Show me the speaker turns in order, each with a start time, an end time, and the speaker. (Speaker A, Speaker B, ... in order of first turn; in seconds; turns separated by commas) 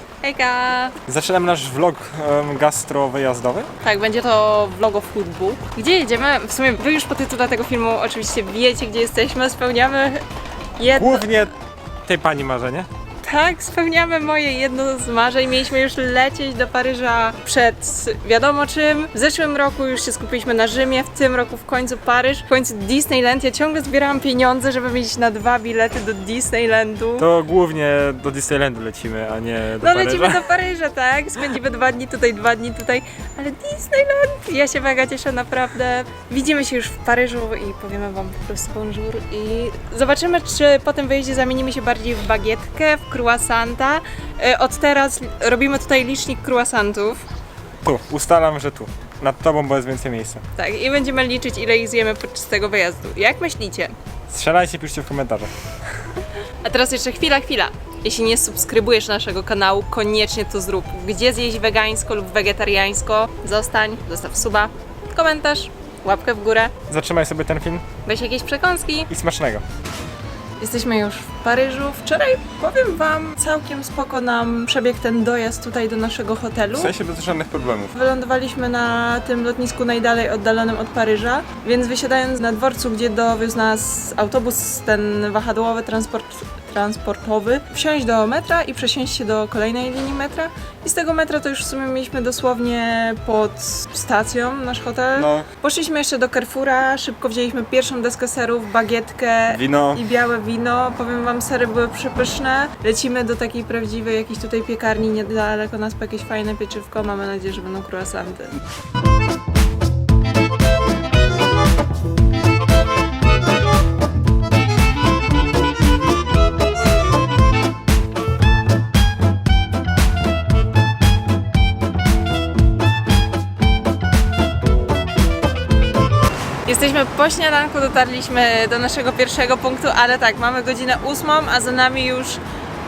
Speaker A: 0.2-1.0, Speaker B: 1.1-3.7, Speaker A: 3.8-10.2, Speaker A: 10.8-11.3, Speaker B: 10.9-11.5, Speaker B: 12.1-12.9, Speaker A: 13.2-27.3, Speaker B: 27.2-30.4, Speaker A: 29.8-47.2, Speaker B: 47.8-50.4, Speaker A: 50.5-53.9, Speaker B: 54.3-55.5, Speaker A: 56.6-66.7, Speaker B: 66.9-67.8, Speaker A: 68.0-69.1, Speaker B: 69.1-69.6, Speaker A: 70.6-76.9, Speaker B: 76.7-78.0, Speaker A: 77.9-108.5, Speaker B: 95.1-95.5, Speaker B: 99.5-100.0, Speaker A: 126.6-132.4